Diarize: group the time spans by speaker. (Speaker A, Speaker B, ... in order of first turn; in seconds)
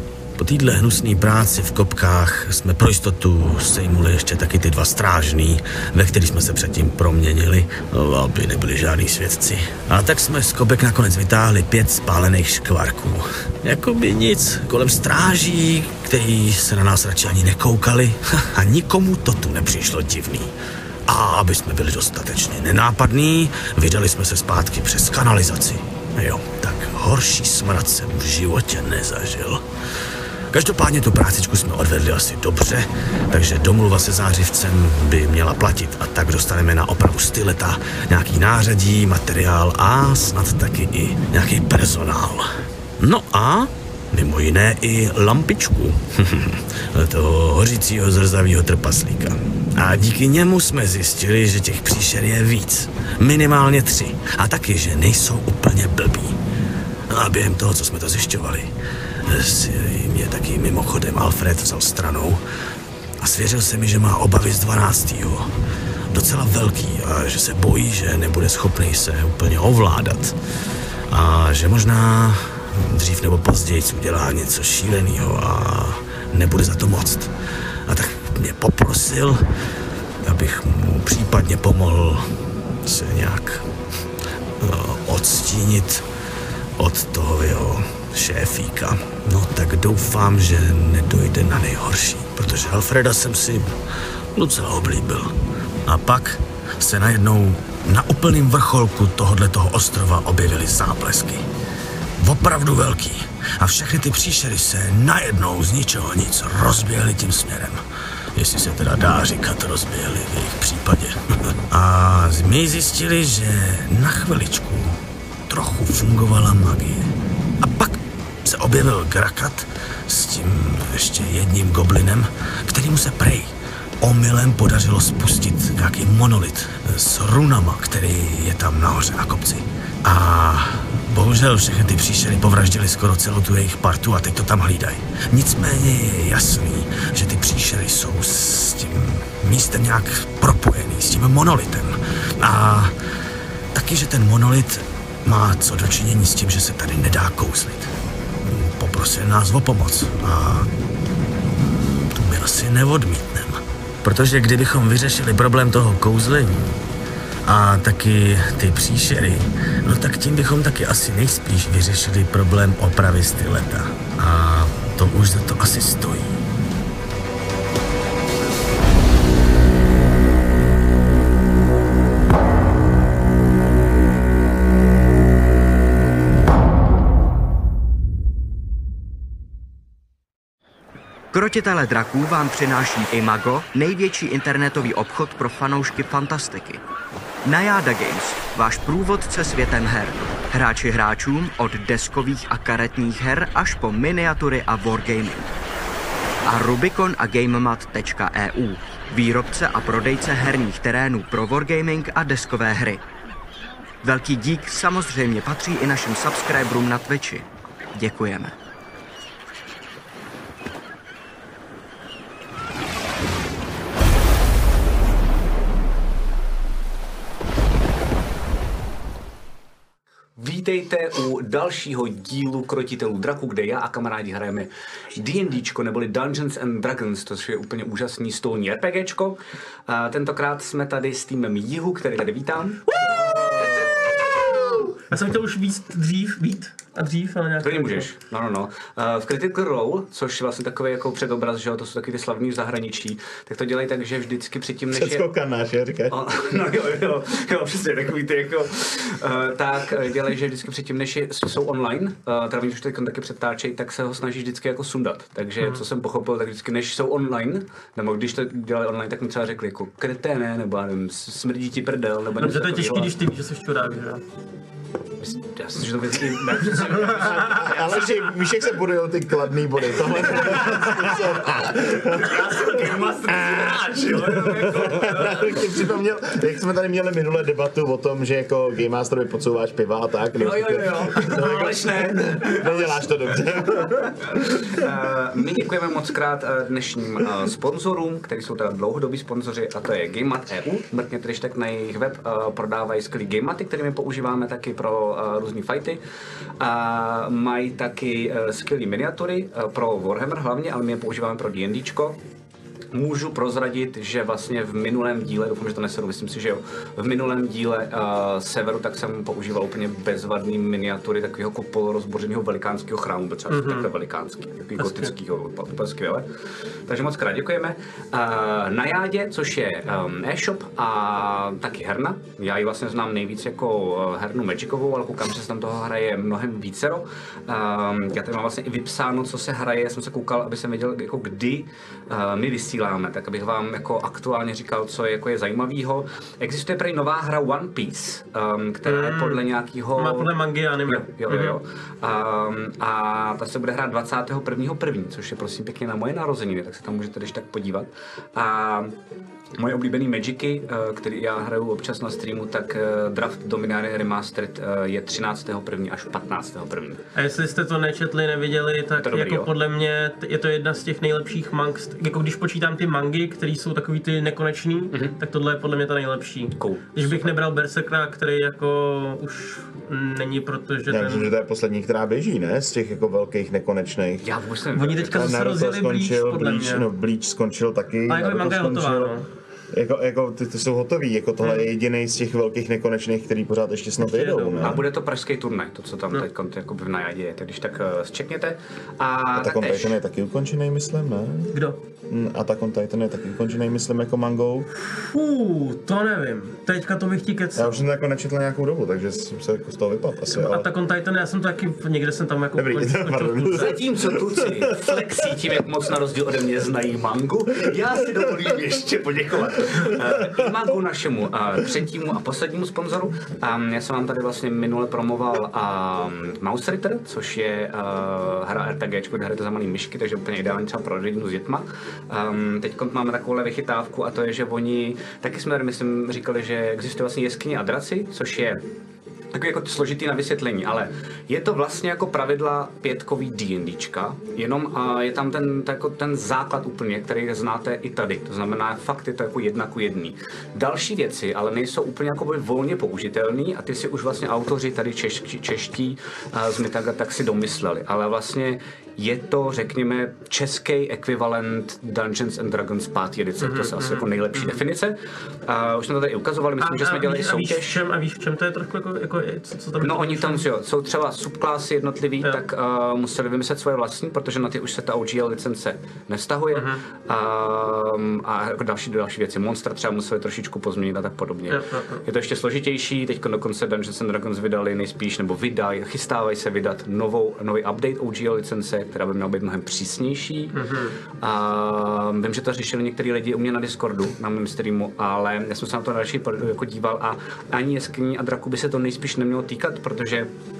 Speaker A: 0.4-20.5, 21.1-29.6, 30.5-56.4, 57.1-58.7, 59.2-62.4, 63.2-65.5, 66.1-70.3, 71.1-77.3, 77.8-79.4, 80.2-82.2, 82.8-83.7, 84.6-86.0, 86.8-93.7, 94.3-101.5, 102.2-107.8, 108.3-142.9, 143.7-147.9, 148.4-150.7, 151.4-156.8, 157.4-166.4
Speaker B: 181.3-186.8, 187.4-195.5, 196.4-203.0, 204.0-208.5
Speaker C: 220.4-233.0, 237.6-245.2, 246.1-263.1, 265.2-268.4, 270.1-275.7, 280.4-283.1, 283.8-296.0, 296.6-302.2, 302.9-316.3, 316.9-340.3, 340.9-349.0, 349.6-357.0, 359.0-359.5, 366.6-367.3, 374.2-375.3, 384.6-390.0, 403.5-428.6, 429.3-457.8, 459.8-480.6, 481.2-490.3
Speaker D: 235.1-238.1, 262.4-264.2, 313.5-313.9, 314.8-315.1, 338.9-339.4, 339.9-341.6, 357.1-371.3, 374.7-376.9, 378.1-379.3, 381.4-381.7, 384.0-384.8, 391.5-391.8, 394.9-397.8, 400.3-403.8, 453.4-454.6, 456.6-460.4, 466.5-466.8, 471.5-472.0, 480.5-481.0
Speaker E: 244.9-246.2, 266.8-272.4, 274.6-284.9, 370.9-374.3, 375.1-379.1, 379.7-384.8, 389.3-391.6, 392.1-394.7, 397.6-400.7, 402.5-405.0, 409.8-410.4